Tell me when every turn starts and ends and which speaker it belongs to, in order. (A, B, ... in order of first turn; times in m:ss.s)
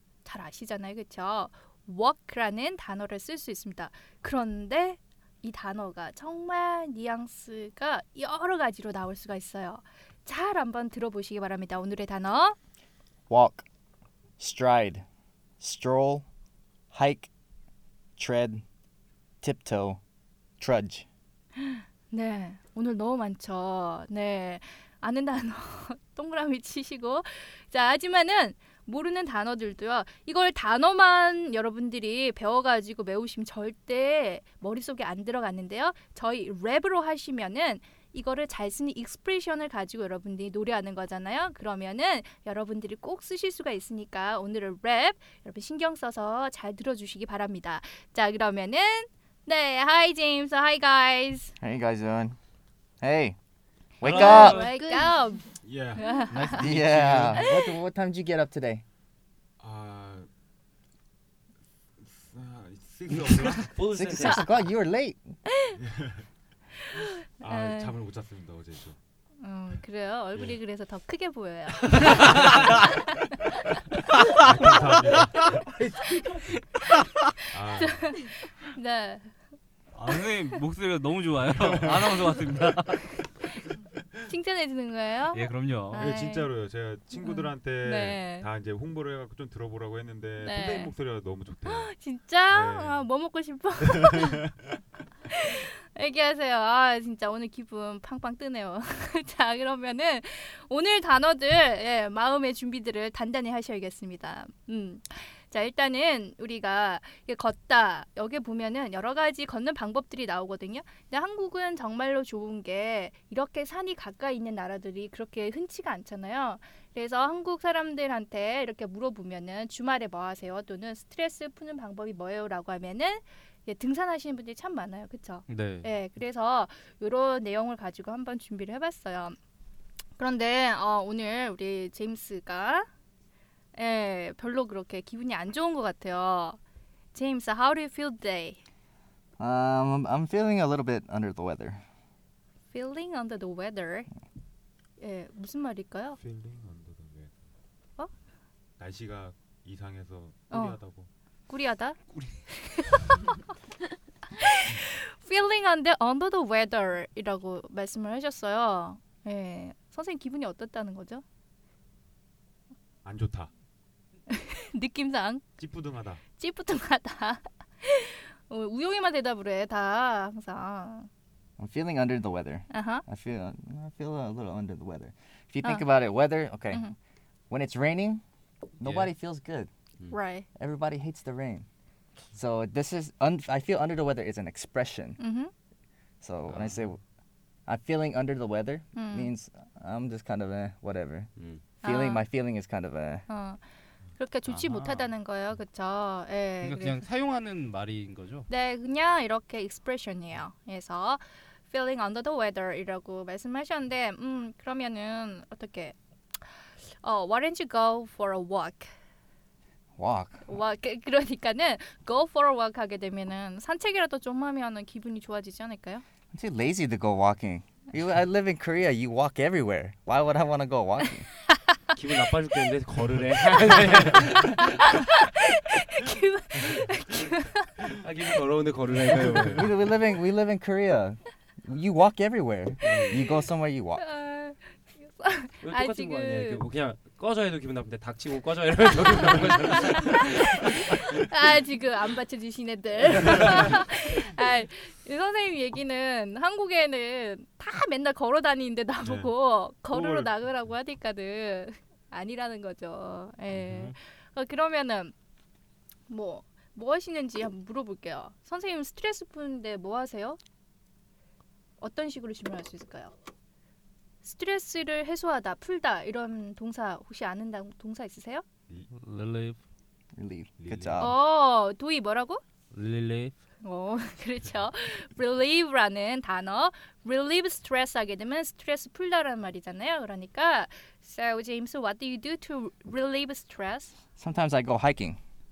0:00.2-0:12.6 A
0:13.3-0:13.7 B
0:14.4-0:15.0 B
0:15.6-0:16.3 B
0:16.9-0:17.3 B
0:18.2-0:18.6 B
0:19.4-0:20.0 B
0:20.6-0:21.1 B
0:21.6-0:51.5 A
0:51.6-0:52.4 B
0:53.0-0:53.4 B
0:54.0-0:54.7 B
0:54.0-0:54.9 C
0:54.0-0:56.7 A
0:55.6-0:56.3 D
0:56.3-0:57.5 E
0:56.6-0:58.8 B
0:57.4-0:57.7 A
0:59.6-1:00.3 D
1:02.0-1:03.7 D
1:03.6-1:04.5 C
1:03.9-1:05.4 B
1:05.8-1:06.2 D
1:06.9-1:08.0 A
1:07.4-1:09.0 D
1:09.4-1:13.3 A
1:12.0-1:12.7 E
1:12.2-1:12.5 D
1:14.2-1:15.4 E
1:14.4-1:15.8 D
1:17.5-1:18.2 D
1:17.7-1:19.3 A
1:19.9-1:23.1 E
1:21.6-1:22.5 D
1:24.3-1:26.5 A
1:25.3-1:26.1 E
1:26.0-1:31.9 D
1:27.2-1:28.5 A
1:30.4-1:30.9 A
1:31.7-1:34.4 A
1:32.5-1:33.1 D
1:33.8-1:34.6 D
1:35.3-2:09.4 A
2:05.5-2:05.9 E
2:10.2-2:12.9 A
2:13.8-2:16.6 A
2:17.1-2:18.6 A
2:19.4-2:21.8 B
2:22.7-2:24.1 A
2:25.0-2:26.2 A
2:26.2-2:27.3 D
2:28.8-2:31.1 D
2:30.5-2:30.8 A
2:31.5-2:32.0 A
2:32.5-2:33.4 A
2:34.3-2:41.2 A
2:43.0-2:43.5 D
2:44.3-2:45.4 A
2:45.6-2:46.2 D
2:46.4-2:51.1 A
2:51.6-2:56.9 B
2:52.7-2:53.0 A
2:57.5-2:58.2 B
2:58.8-2:59.7 B
2:58.8-2:59.1 C
3:00.1-3:00.5 A
3:00.6-3:01.7 B
3:02.4-3:05.2 B
3:05.2-3:05.5 A
3:06.2-3:07.0 B
3:06.5-3:06.7 C
3:07.7-3:11.3 B
3:09.0-3:09.3 A
3:11.4-3:11.6 C
3:11.8-3:12.2 A
3:11.8-3:13.2 B
3:13.3-3:13.6 A
3:14.2-3:17.0 A
3:14.5-3:15.0 E
3:16.6-3:18.5 E
3:18.5-3:26.0 A
3:27.0-3:28.9 A
3:30.0-3:30.5 B
3:30.5-3:36.0 A
3:36.3-3:41.3 B
3:42.0-3:44.8 C
3:44.4-3:47.7 A
3:48.0-3:49.7 C
3:49.5-3:54.0 B
3:52.8-3:53.2 C
3:54.0-3:56.6 A
3:55.6-4:00.9 C
3:59.2-3:59.5 A
4:00.0-4:15.1 A
4:09.0-4:09.3 D
4:09.9-4:10.3 D
4:13.5-4:13.9 E
4:16.1-4:20.4 A
4:21.8-4:23.1 A
4:24.2-4:28.4 A
4:28.9-4:29.6 E
4:30.2-4:31.2 B
4:30.6-4:31.1 C
4:31.0-4:32.4 A
4:32.7-4:33.4 E
4:33.6-4:44.0 A
4:44.2-4:45.2 B